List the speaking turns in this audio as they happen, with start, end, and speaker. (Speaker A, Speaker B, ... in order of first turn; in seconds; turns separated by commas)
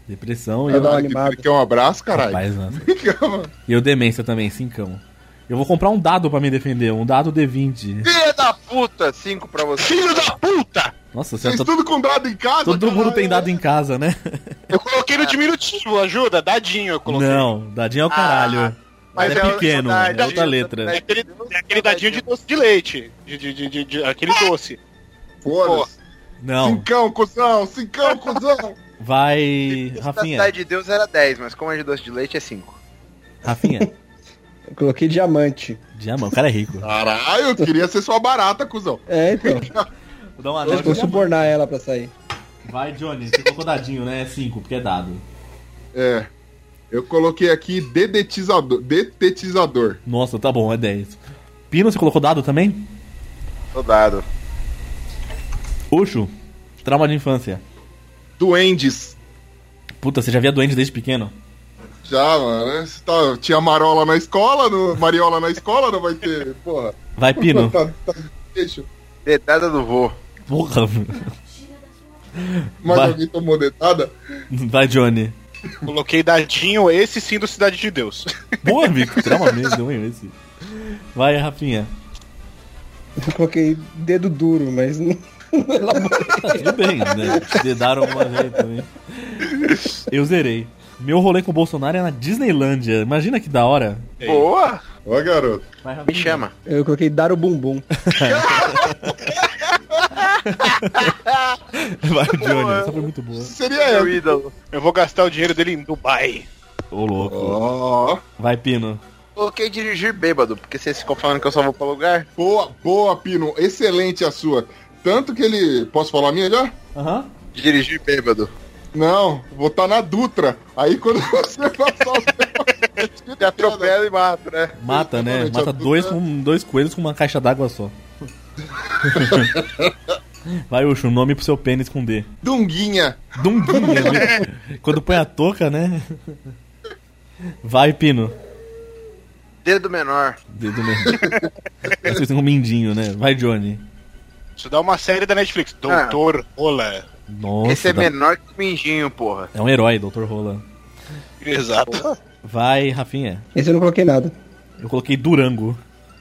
Speaker A: 0.1-1.1, Speaker B: 0.7-1.4, Speaker C: 0.7-3.5, Speaker A: 2.1-2.9, Speaker A: 3.7-8.1, Speaker D: 8.0-10.3, Speaker E: 9.8-10.9, Speaker A: 11.1-11.7, Speaker C: 11.4-13.6, Speaker A: 12.6-14.6, Speaker E: 14.7-17.5, Speaker A: 17.1-21.0, Speaker D: 18.1-22.2, Speaker E: 19.1-24.8, Speaker C: 25.4-25.9, Speaker E: 25.6-25.9, Speaker A: 26.4-26.9, Speaker C: 26.6-28.8, Speaker A: 29.0-30.5, Speaker D: 29.9-32.8, Speaker A: 33.4-33.9, Speaker B: 33.5-33.9, Speaker B: 34.7-35.8, Speaker A: 36.0-36.9, Speaker C: 36.8-39.9, Speaker B: 39.1-39.7, Speaker A: 40.4-41.5, Speaker B: 40.6-42.1, Speaker C: 40.7-41.2, Speaker A: 42.7-45.2, Speaker C: 45.9-46.3, Speaker C: 46.9-50.0, Speaker A: 50.1-51.2, Speaker A: 51.7-52.9, Speaker D: 53.7-54.2, Speaker A: 55.9-56.3, Speaker A: 56.8-57.6, Speaker C: 58.4-59.2, Speaker A: 60.0-61.3, Speaker C: 62.0-68.9, Speaker A: 67.2-67.8, Speaker D: 69.2-70.2, Speaker A: 70.5-71.3, Speaker A: 72.4-73.2, Speaker C: 72.8-74.1, Speaker A: 74.5-75.4, Speaker E: 75.8-78.3, Speaker A: 78.6-81.9, Speaker B: 83.2-87.7, Speaker A: 86.1-94.1, Speaker E: 94.2-94.5, Speaker D: 94.2-94.8, Speaker C: 95.0-95.7, Speaker A: 95.8-96.5, Speaker D: 96.1-96.5, Speaker B: 96.7-97.9, Speaker A: 98.0-99.2, Speaker D: 98.3-98.8, Speaker A: 100.4-101.1, Speaker D: 100.7-101.6, Speaker A: 101.8-103.5, Speaker D: 102.3-103.0, Speaker C: 103.4-104.4, Speaker D: 103.8-104.5, Speaker E: 104.7-106.5, Speaker A: 106.9-107.6, Speaker C: 107.2-108.2, Speaker A: 108.4-109.0, Speaker D: 109.4-112.3, Speaker C: 112.4-116.8, Speaker A: 117.0-117.3, Speaker D: 117.5-118.5, Speaker C: 118.9-124.0, Speaker D: 123.4-124.8, Speaker A: 124.8-128.0, Speaker C: 124.9-126.2, Speaker A: 129.0-129.6, Speaker C: 129.2-129.9, Speaker A: 130.7-132.3, Speaker C: 132.4-134.4, Speaker A: 133.4-136.4, Speaker A: 137.6-138.3, Speaker D: 139.6-140.4, Speaker A: 140.5-141.2, Speaker C: 141.1-141.3, Speaker A: 141.9-143.8, Speaker E: 144.6-147.1, Speaker D: 145.9-146.2, Speaker A: 147.3-148.1, Speaker D: 147.6-149.5, Speaker A: 149.5-150.6, Speaker E: 151.4-152.1, Speaker A: 152.4-153.4, Speaker B: 153.6-154.3, Speaker A: 154.8-155.8